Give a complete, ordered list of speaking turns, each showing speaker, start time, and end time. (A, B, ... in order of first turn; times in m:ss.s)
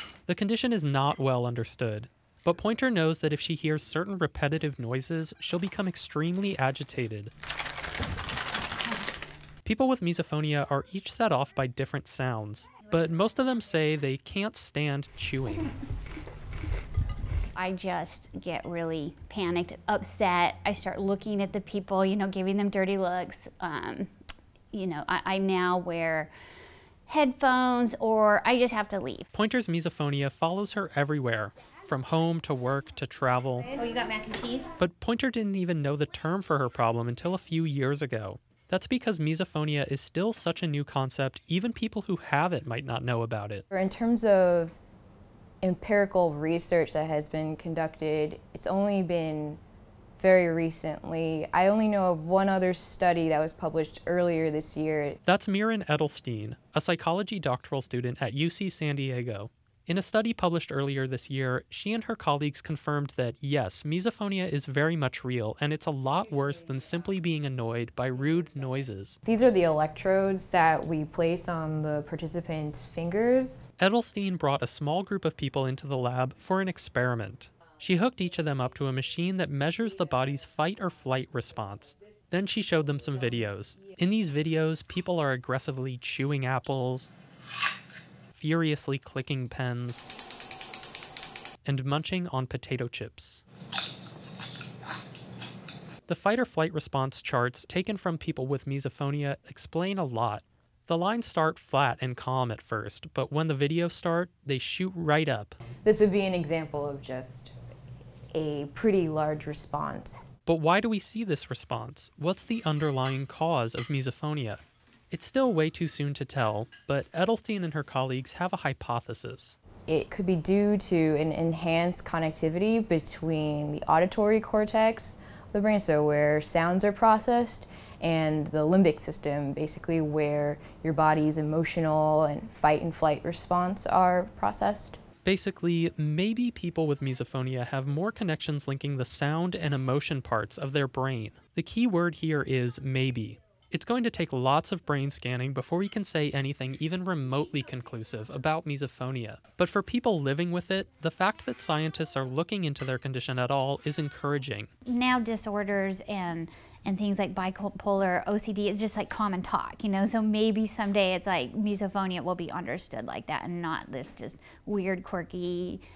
0:00.3-0:07.3 A
0:09.6-0:15.7 A
0:17.6-0:24.1 B
0:24.7-0:26.3 B
0:27.1-0:29.3 B
0:29.3-0:33.7 A
0:33.7-0:34.7 B
0:34.8-0:43.6 A
0:43.7-0:44.8 C
0:45.6-0:49.6 C
0:50.2-0:55.2 C
0:55.2-1:09.2 A
1:09.3-1:13.7 C
1:13.8-1:27.1 A
1:28.3-1:30.1 A
1:31.7-1:33.4 A
1:36.1-1:45.6 A
1:45.8-1:47.5 C
1:48.3-1:50.3 C
1:50.5-1:59.6 A
1:59.9-2:15.0 C
2:15.2-2:34.7 A
2:34.9-2:45.8 B